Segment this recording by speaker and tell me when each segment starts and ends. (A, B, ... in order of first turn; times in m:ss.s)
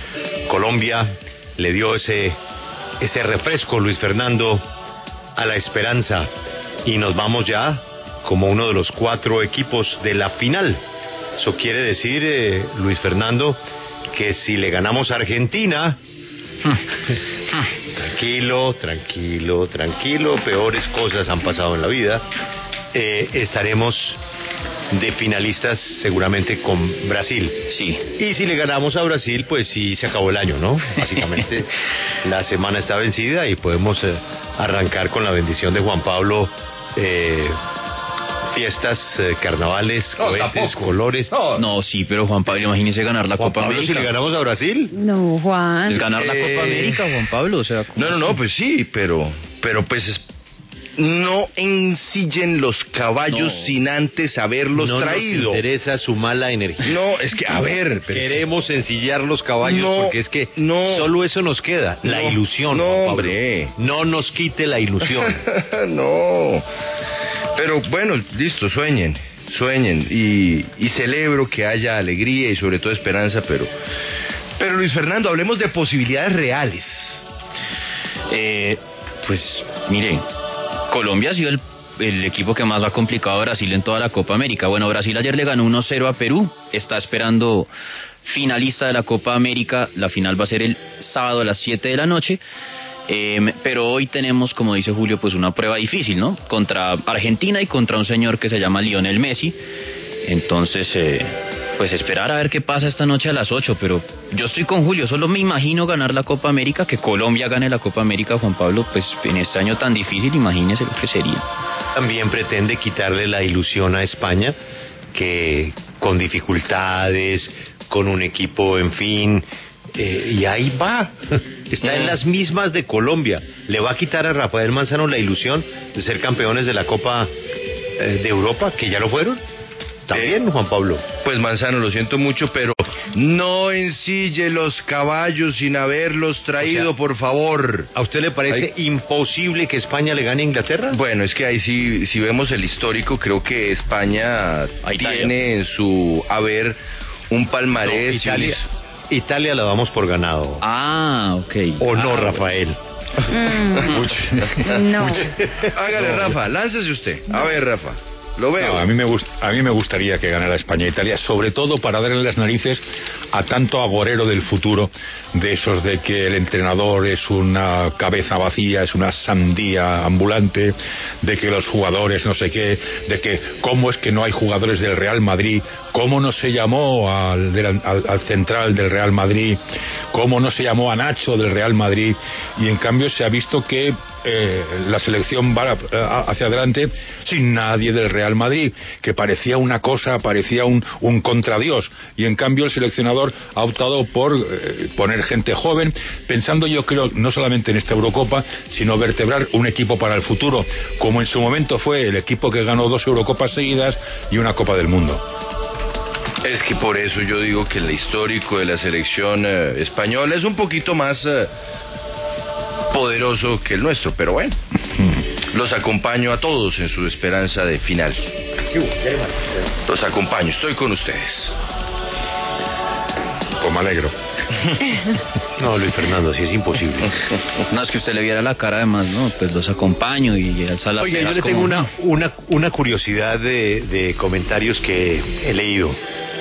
0:00.5-0:02.4 A
0:03.0-0:04.6 A
0:05.4-0:06.3 A
0:06.8-0:10.8 A
0:11.4-0:16.0 A
0:17.9-0:22.2 A
0:22.9-0:24.2 A
0:24.9-0:37.6 A
0:27.7-0:28.0 B
0:38.5-0:41.3 A
0:40.2-0:41.6 C
0:41.6-0:44.1 B
0:43.4-0:44.9 A
0:44.9-0:46.0 D
0:45.8-0:48.4 B
0:46.2-0:46.8 C
0:46.2-0:46.9 A
0:48.0-0:50.2 C
0:51.0-0:55.6 C
0:53.4-0:53.6 B
0:54.7-0:57.0 A
0:56.8-0:58.4 C
0:58.1-1:05.4 A
0:59.6-1:01.1 C
1:02.0-1:03.7 C
1:05.2-1:06.6 C
1:07.5-1:13.7 C
1:14.6-1:17.2 C
1:18.3-1:20.2 B
1:20.9-1:27.7 B
1:28.2-1:32.4 B
1:33.1-1:39.6 B
1:40.2-1:51.4 B
1:52.0-1:54.5 A
1:55.1-2:07.3 A
2:01.8-2:02.1 C
2:08.0-2:09.4 A
2:10.1-2:11.0 A
2:10.1-2:10.4 C
2:11.2-2:17.9 C
2:16.6-2:16.9 A
2:17.9-2:21.0 A
2:20.9-2:26.8 C
2:24.8-2:25.4 B
2:27.3-2:28.6 C
2:27.8-2:30.6 A
2:30.6-2:32.5 B
2:31.8-2:32.8 A
2:33.3-2:33.9 D
2:33.8-2:34.9 E
2:34.7-2:35.2 D
2:35.0-2:38.8 C
2:38.6-2:59.6 E
3:00.1-3:25.2 E
3:26.4-3:31.5 C
3:32.9-3:34.6 C
3:35.4-3:38.3 C
3:38.7-3:39.6 A
3:39.8-3:41.6 C
3:43.6-3:44.1 E
3:45.6-3:47.1 A
3:47.6-3:51.9 B
3:51.0-3:56.0 A